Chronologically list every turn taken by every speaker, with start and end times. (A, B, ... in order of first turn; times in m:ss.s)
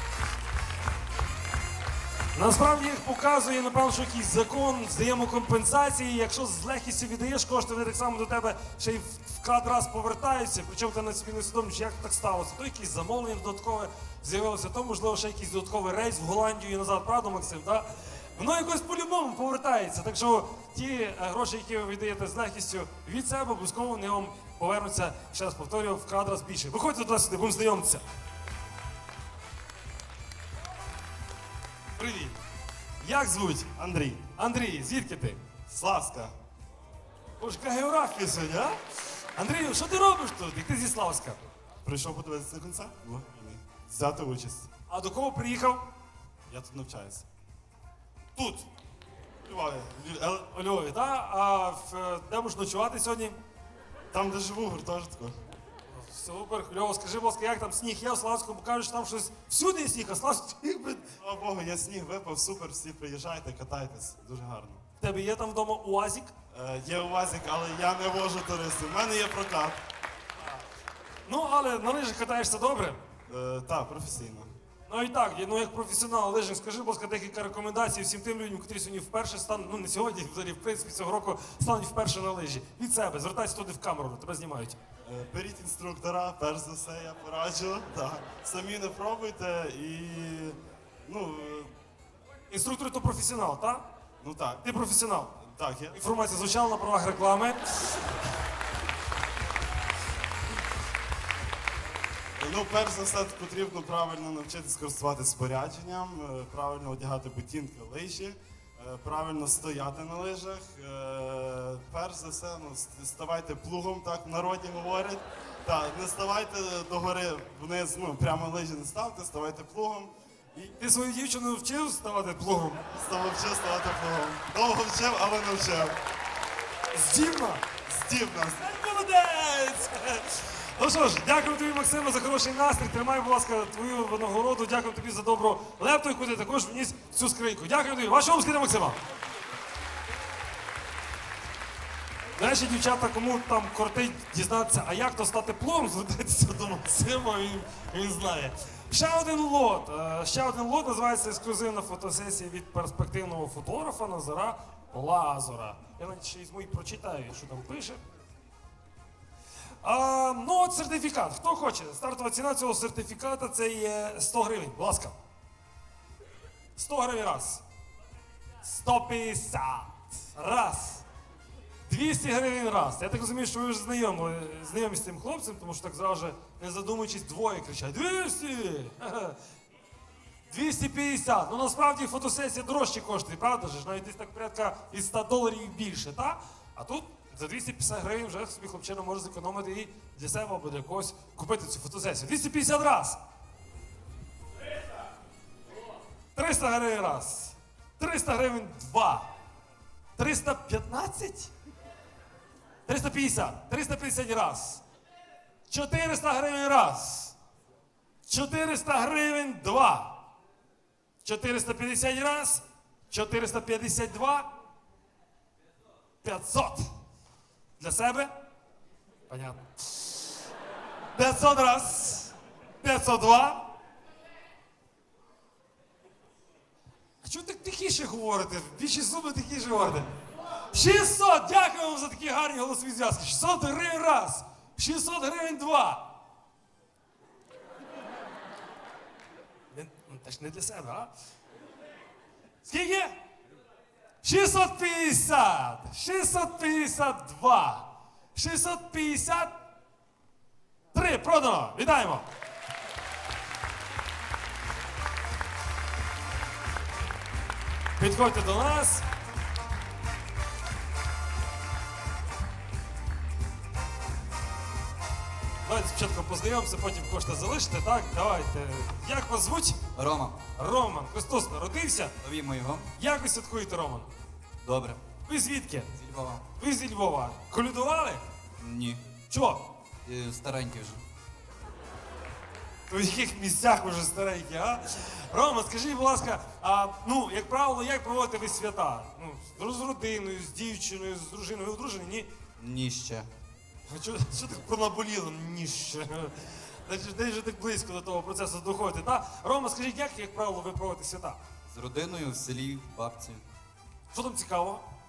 0:02.3-0:28.0 A
0:32.0-0:32.4 A
0:33.0-0:33.7 A
0:33.8-0:34.2 B
0:34.4-0:35.4 A
0:35.7-0:36.3 B
0:37.4-0:38.8 A
0:39.4-0:41.4 A
0:41.8-0:44.7 B
0:44.9-0:45.8 A
0:46.5-0:47.3 B
0:48.4-0:48.7 A
0:49.4-0:50.4 B
0:50.4-0:53.4 A
0:54.1-0:55.4 B
0:55.9-1:01.1 A
1:01.2-1:04.8 B
1:05.0-1:06.3 A
1:06.5-1:09.8 B
1:11.3-1:13.0 A
1:13.3-1:14.5 B
1:14.9-1:24.8 A
1:25.0-1:31.7 B
1:32.5-1:33.8 A
1:34.2-1:34.6 B
1:34.6-1:35.3 A
1:35.4-1:36.0 B
1:35.9-1:38.0 A
1:42.4-2:00.7 B
2:00.8-2:02.8 A
2:02.9-2:06.0 B
2:06.9-2:07.6 A
2:07.9-2:08.6 B
2:08.6-2:19.0 A
2:22.4-2:38.0 A
2:39.8-2:45.2 A
2:46.8-2:47.6 A
2:48.6-2:51.0 A
2:51.9-2:59.4 A
3:00.5-3:13.2 A
3:16.4-3:19.3 A
3:20.2-3:21.5 A
3:22.9-3:24.8 A
3:25.7-3:27.4 A
3:28.3-3:30.2 A
3:31.2-3:34.5 A
3:36.2-3:36.9 A
3:37.8-3:38.3 A
3:39.3-3:40.4 A
3:41.1-3:43.7 A
3:47.2-3:50.2 A
3:50.7-3:56.2 A
3:59.7-4:01.1 A
4:02.6-4:03.2 A
4:04.2-4:09.6 A
4:10.9-4:12.3 A
4:18.0-4:19.1 A
4:25.6-4:29.8 A
4:30.0-4:30.4 C
4:30.6-4:32.1 A
4:32.2-4:32.9 C
4:33.0-4:34.1 A
4:34.6-4:35.0 C
4:35.3-4:35.9 A
4:36.0-4:36.4 C
4:36.6-4:38.2 A
4:38.6-4:39.0 C
4:39.3-4:39.6 A
4:40.0-4:41.0 C
4:42.9-4:52.3 A
4:52.6-4:53.3 C
4:53.9-5:01.4 A
5:01.7-5:03.4 C
5:04.1-5:04.8 A